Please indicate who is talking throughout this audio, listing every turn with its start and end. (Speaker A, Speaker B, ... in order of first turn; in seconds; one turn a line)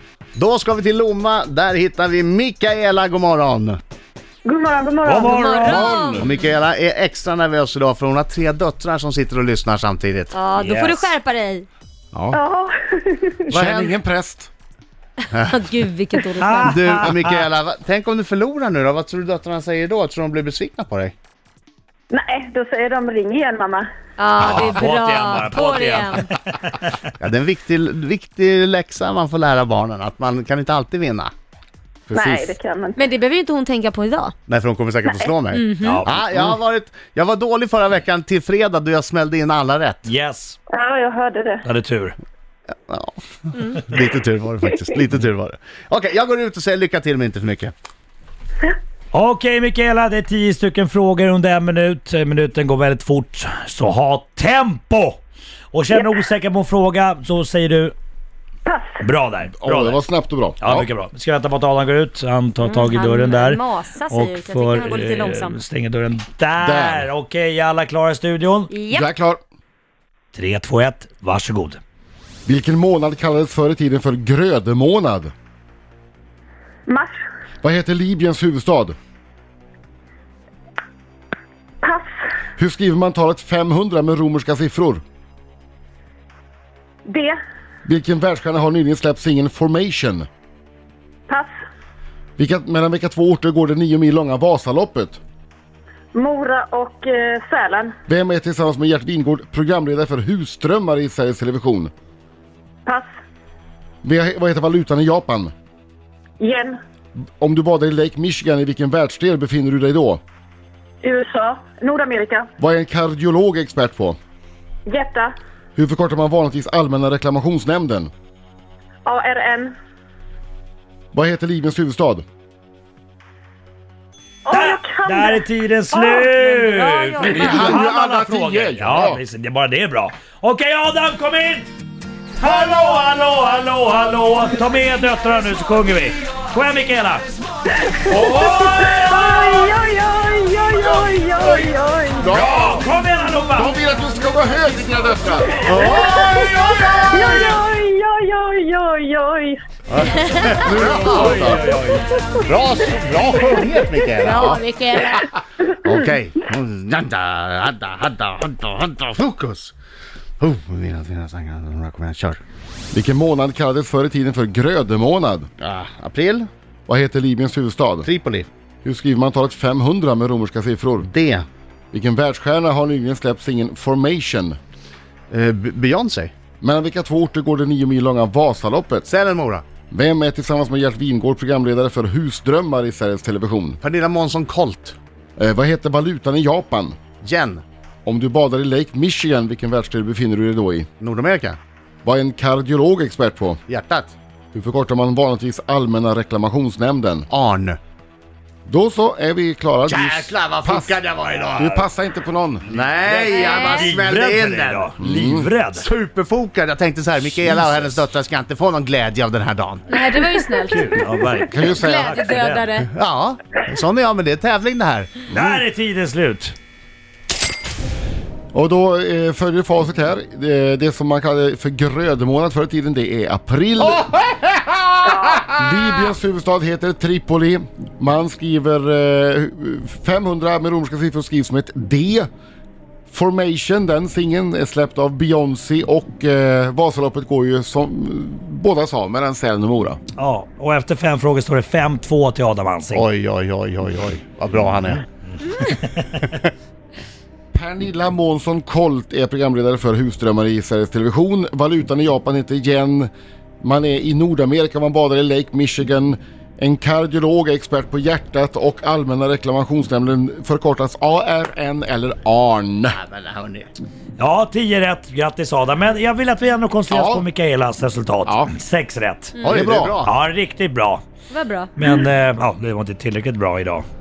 Speaker A: 0.4-3.8
Speaker B: 4.5-5.6
Speaker C: 5.0-6.1
Speaker D: 5.3-6.2
Speaker E: 5.6-6.4
Speaker A: 6.2-10.4
Speaker D: 10.3-11.7
Speaker C: 10.6-11.1
Speaker E: 12.1-12.4
Speaker B: 12.3-13.4
Speaker E: 13.5-14.5
Speaker A: 13.5-14.0
Speaker A: 15.3-15.6
Speaker D: 15.5-16.8
Speaker C: 16.4-17.4
Speaker A: 16.6-21.1
Speaker B: 22.1-23.9
Speaker D: 24.2-26.3
Speaker C: 24.4-27.0
Speaker A: 27.2-31.3
Speaker E: 32.1-32.5
Speaker B: 32.1-33.0
Speaker D: 33.0-34.3
Speaker A: 34.5-40.1
Speaker D: 35.5-36.0
Speaker C: 35.8-36.2
Speaker C: 40.0-40.6
Speaker B: 40.7-41.6
Speaker C: 41.6-42.2
Speaker A: 42.7-47.7
Speaker C: 49.1-55.2
Speaker C: 55.7-58.0
Speaker B: 58.7-59.0
Speaker C: 59.0-60.0
Speaker E: 59.6-60.9
Speaker C: 60.6-68.7
Speaker D: 62.6-65.6
Speaker E: 66.6-67.1
Speaker D: 68.7-69.0
Speaker E: 68.9-69.4
Speaker C: 70.3-71.8
Speaker E: 72.5-75.3
Speaker B: 76.9-77.2
Speaker E: 77.6-79.0
Speaker B: 81.8-82.1
Speaker E: 82.6-85.0
Speaker B: 87.1-87.4
Speaker E: 87.8-90.3
Speaker E: 92.4-95.2
Speaker B: 96.1-97.9
Speaker E: 98.1-101.9
Speaker E: 104.0-105.5
Speaker B: 106.4-106.8
Speaker E: 107.4-110.2
Speaker B: 111.0-112.5
Speaker E: 112.6-114.2
Speaker B: 114.9-115.3
Speaker E: 115.8-118.1
Speaker B: 119.0-119.7
Speaker E: 121.1-122.2
Speaker B: 124.5-127.7
Speaker C: 124.5-131.7
Speaker D: 126.7-127.2
Speaker E: 127.2-129.2
Speaker C: 132.4-137.4
Speaker B: 137.9-142.4
Speaker C: 138.0-139.7
Speaker E: 140.8-142.8
Speaker C: 142.3-143.8
Speaker E: 143.5-145.6
Speaker B: 145.6-149.6
Speaker A: 145.7-146.6
Speaker C: 145.8-147.6
Speaker A: 149.9-151.7
Speaker E: 150.6-151.7
Speaker C: 150.7-152.2
Speaker A: 152.4-154.6
Speaker D: 154.2-155.2
Speaker E: 154.3-154.6
Speaker A: 155.6-159.8
Speaker A: 160.4-162.4
Speaker E: 162.9-165.5
Speaker A: 165.6-166.5
Speaker E: 166.9-168.1
Speaker A: 168.0-168.5
Speaker E: 168.8-171.1
Speaker A: 171.0-171.5
Speaker E: 171.9-174.6
Speaker A: 175.3-176.3
Speaker E: 176.6-179.1
Speaker A: 179.1-179.7
Speaker E: 179.9-183.8
Speaker A: 183.8-185.0
Speaker E: 185.4-187.0
Speaker A: 187.2-187.6
Speaker E: 188.1-190.9
Speaker A: 191.0-191.6
Speaker E: 192.0-193.6
Speaker A: 193.7-194.2
Speaker E: 194.5-197.3
Speaker A: 197.3-197.8
Speaker E: 198.7-201.0
Speaker A: 199.9-201.7
Speaker C: 201.6-201.9
Speaker E: 201.6-202.8
Speaker A: 202.7-204.9
Speaker C: 203.1-205.8
Speaker D: 203.3-203.9
Speaker E: 205.0-205.5
Speaker A: 205.8-210.0
Speaker D: 209.9-210.8
Speaker C: 210.6-212.7
Speaker E: 211.5-212.3
Speaker D: 211.8-212.8
Speaker A: 212.8-215.1
Speaker E: 215.3-215.6
Speaker C: 215.3-216.6
Speaker E: 218.5-224.1
Speaker B: 225.0-225.8
Speaker E: 225.5-232.3
Speaker E: 233.1-240.0
Speaker C: 240.2-243.1
Speaker A: 242.9-245.0
Speaker C: 245.5-246.0
Speaker E: 247.5-253.1
Speaker E: 253.6-263.0
Speaker A: 262.9-263.7
Speaker C: 264.2-269.4
Speaker E: 266.9-267.3
Speaker E: 268.3-268.5
Speaker A: 269.4-270.2
Speaker E: 269.5-270.0
Speaker C: 270.1-271.0
Speaker D: 271.3-271.7
Speaker C: 271.8-273.9